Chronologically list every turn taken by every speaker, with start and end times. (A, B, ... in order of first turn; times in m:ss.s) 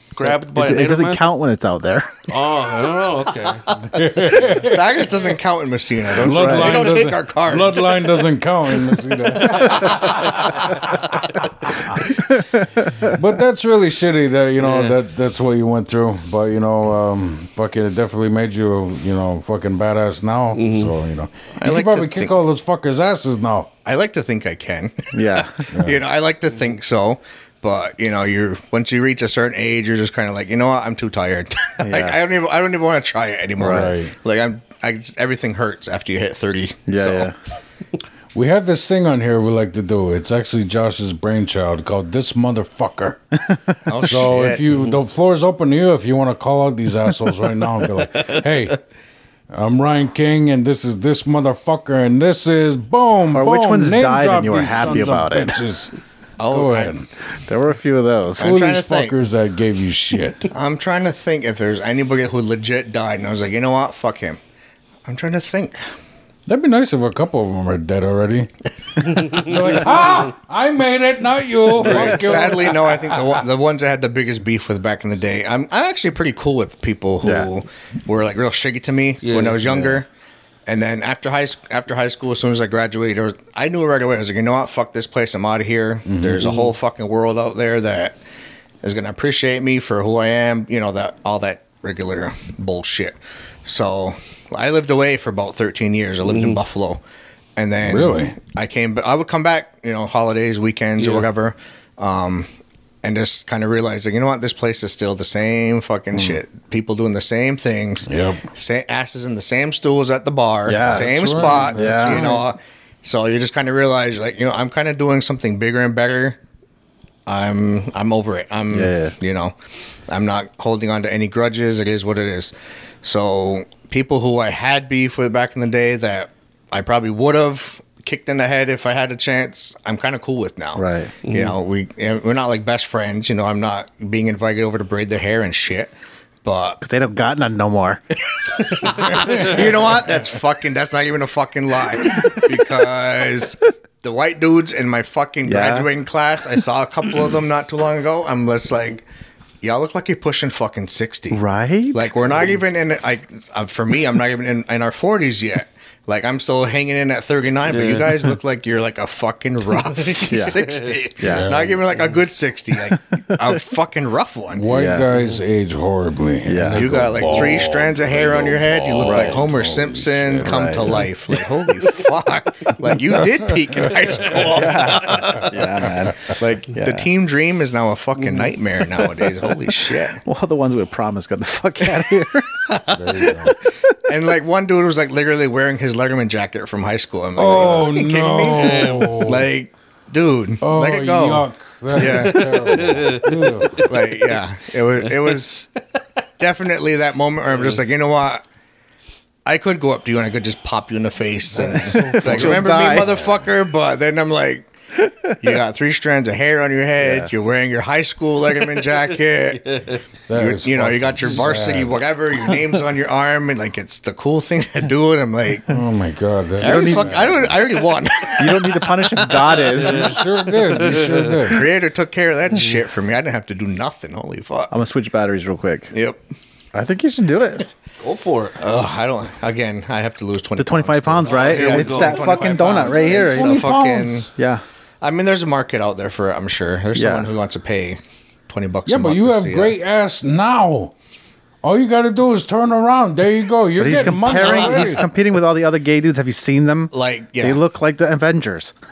0:00.1-0:01.2 A
0:00.2-0:02.1 B
0:02.3-0:03.6 A
0:03.9-0:04.9 C
0:04.4-0:08.2 D
0:06.1-0:12.0 C
0:06.2-0:06.9 B
0:12.4-0:13.1 B
0:12.9-0:23.7 C
0:14.6-0:15.0 A
0:20.5-0:20.9 A
0:21.6-0:22.3 D
0:23.8-0:37.3 D
0:25.1-0:25.6 B
0:25.7-0:26.0 C
0:31.8-0:32.2 B
0:33.6-0:34.0 B
0:33.6-0:34.1 C
0:36.9-0:37.3 B
0:38.3-0:43.2 C
0:43.5-0:43.8 B
0:43.8-0:44.7 D
0:44.0-0:48.8 C
0:49.5-0:55.9 C
0:53.3-0:55.6 B
0:56.4-0:56.9 D
0:56.4-0:57.1 C
0:57.4-0:58.5 B
0:58.4-0:59.2 D
0:58.4-1:00.5 C
1:00.5-1:04.4 D
1:05.0-1:05.8 D
1:06.5-1:08.5 C
1:09.0-1:13.4 C
1:09.1-1:09.7 A
1:11.8-1:12.4 A
1:11.8-1:20.1 D
1:17.2-1:17.5 B
1:19.2-1:19.6 A
1:19.6-1:20.0 B
1:20.6-1:28.2 D
1:26.1-1:26.4 C
1:26.4-1:26.7 A
1:28.8-1:37.0 D
1:36.2-1:36.6 A
1:37.6-1:42.5 D
1:37.8-1:38.4 C
1:41.0-1:41.3 A
1:43.0-1:56.4 D
1:48.0-1:48.4 C
1:50.7-1:52.4 B
1:50.8-1:52.4 C
1:57.2-2:15.9 D
1:58.7-1:59.1 B
2:10.8-2:11.1 B
2:11.2-2:11.6 A
2:16.4-2:16.8 D
2:16.8-2:18.0 B
2:18.4-2:29.0 D
2:19.2-2:19.5 C
2:25.4-2:25.9 B
2:29.6-2:31.4 D
2:31.3-2:32.1 B
2:31.9-2:44.6 D
2:37.7-2:38.2 A
2:40.2-2:40.6 B
2:41.2-2:41.5 B
2:41.2-2:41.8 C
2:44.5-2:51.4 C
2:44.7-2:45.1 B
2:45.1-2:45.4 A
2:46.4-2:46.9 B
2:46.7-3:00.2 D
2:49.0-2:49.4 B
2:50.4-2:51.1 B
2:53.1-2:54.0 C
2:54.2-2:55.2 A
2:54.5-2:57.1 B
3:00.2-3:02.7 B
3:02.7-3:03.4 D
3:02.9-3:03.6 C
3:04.0-3:12.6 D
3:07.4-3:09.5 C
3:08.4-3:09.2 A
3:10.6-3:13.9 C
3:12.0-3:14.4 A
3:13.8-3:15.7 D
3:15.0-3:15.4 A
3:16.4-3:18.4 D
3:17.5-3:17.8 A
3:19.4-3:24.7 D
3:21.6-3:23.3 C
3:21.7-3:23.1 B
3:25.3-3:35.8 D
3:27.0-3:27.3 B
3:29.7-3:30.0 A
3:30.3-3:32.0 C
3:35.7-3:37.6 C
3:36.6-3:39.7 D
3:36.6-3:37.2 B
3:38.4-3:40.2 B
3:39.7-3:41.7 C
3:39.8-3:41.5 A
3:41.4-3:44.7 D
3:44.7-3:45.9 B
3:45.9-3:46.2 D
3:46.7-3:47.6 B
3:48.0-3:48.6 A
3:48.6-3:54.3 D
3:50.6-3:53.6 B
3:51.2-3:53.2 A
3:53.1-3:54.3 C
3:54.4-3:54.6 B
3:55.0-3:59.7 D
3:56.9-3:57.3 B
3:58.8-4:00.9 C
4:01.6-4:05.0 C
4:03.8-4:08.7 B
4:04.4-4:05.0 D
4:06.9-4:07.6 D